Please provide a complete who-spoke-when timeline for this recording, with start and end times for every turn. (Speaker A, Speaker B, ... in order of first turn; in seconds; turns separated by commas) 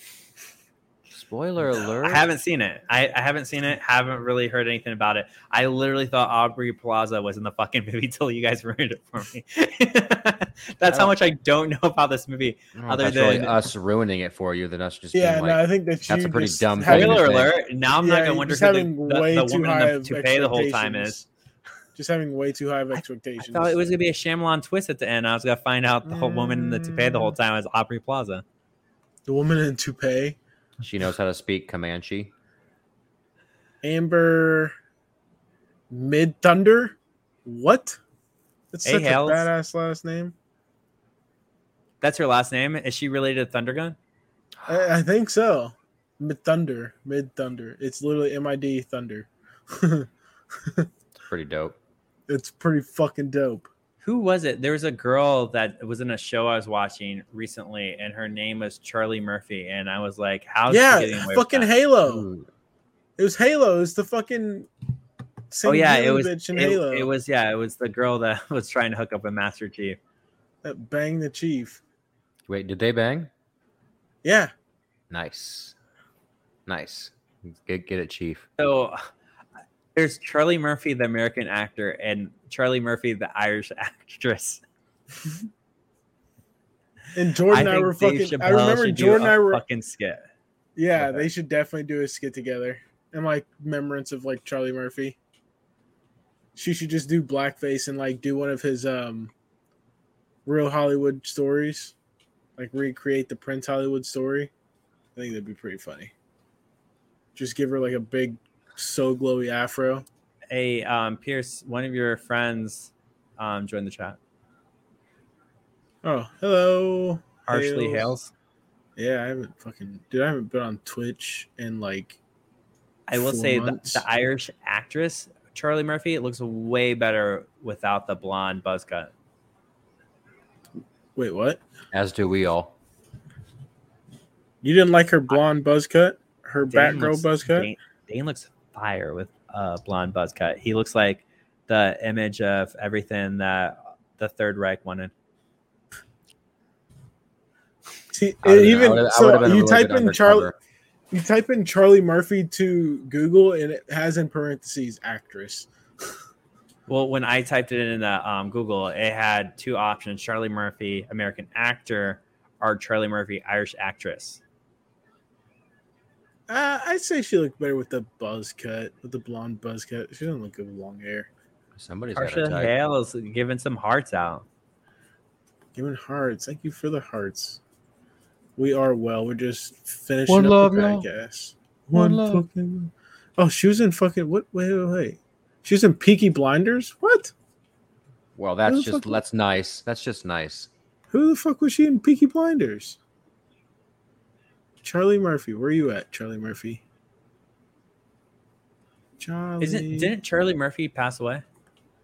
Speaker A: 1.1-2.3, Speaker B: 2.0-13.6, Speaker A: 10.8-11.1, Speaker A: 12.7-17.5, Speaker C: 15.1-17.5, Speaker B: 16.8-21.2, Speaker C: 18.0-21.3, Speaker C: 21.9-23.8, Speaker B: 23.4-28.4, Speaker C: 26.0-27.3, Speaker C: 29.3-30.4, Speaker A: 30.8-32.3, Speaker C: 33.8-34.7, Speaker C: 35.9-38.0, Speaker C: 38.7-40.3, Speaker B: 38.8-39.5, Speaker B: 42.0-44.0, Speaker C: 44.6-50.1, Speaker A: 51.2-51.8, Speaker C: 52.3-53.7, Speaker B: 54.0-61.7, Speaker C: 60.7-62.3, Speaker A: 62.0-62.5, Speaker C: 63.2-64.7, Speaker C: 65.5-67.1, Speaker B: 65.6-70.0, Speaker C: 70.6-71.8, Speaker A: 72.5-73.3, Speaker C: 74.2-74.5, Speaker A: 75.1-75.7, Speaker A: 76.7-78.4, Speaker B: 78.6-79.1, Speaker B: 79.9-84.6, Speaker C: 87.1-89.6, Speaker B: 87.5-90.2, Speaker C: 90.8-95.2, Speaker B: 91.0-91.3, Speaker C: 96.5-99.3, Speaker C: 100.5-101.9, Speaker C: 102.6-104.5, Speaker C: 105.2-106.1, Speaker C: 107.3-110.0, Speaker B: 110.5-114.2, Speaker C: 116.0-118.1, Speaker B: 117.5-118.3, Speaker C: 119.0-122.2, Speaker B: 123.1-129.1, Speaker C: 123.1-124.0, Speaker C: 131.2-131.6, Speaker A: 131.9-132.7, Speaker C: 134.6-137.7, Speaker B: 136.7-145.1, Speaker C: 148.1-150.5, Speaker A: 148.4-150.5, Speaker C: 151.1-155.7, Speaker B: 156.9-164.4, Speaker C: 166.5-171.3, Speaker A: 171.7-172.7, Speaker B: 172.2-174.4, Speaker C: 175.7-177.6, Speaker C: 178.6-187.3, Speaker A: 180.3-181.1, Speaker A: 181.9-182.4, Speaker A: 188.3-190.7, Speaker C: 188.7-189.2, Speaker C: 191.1-193.0, Speaker C: 194.8-196.8, Speaker C: 199.2-200.1, Speaker B: 199.6-201.4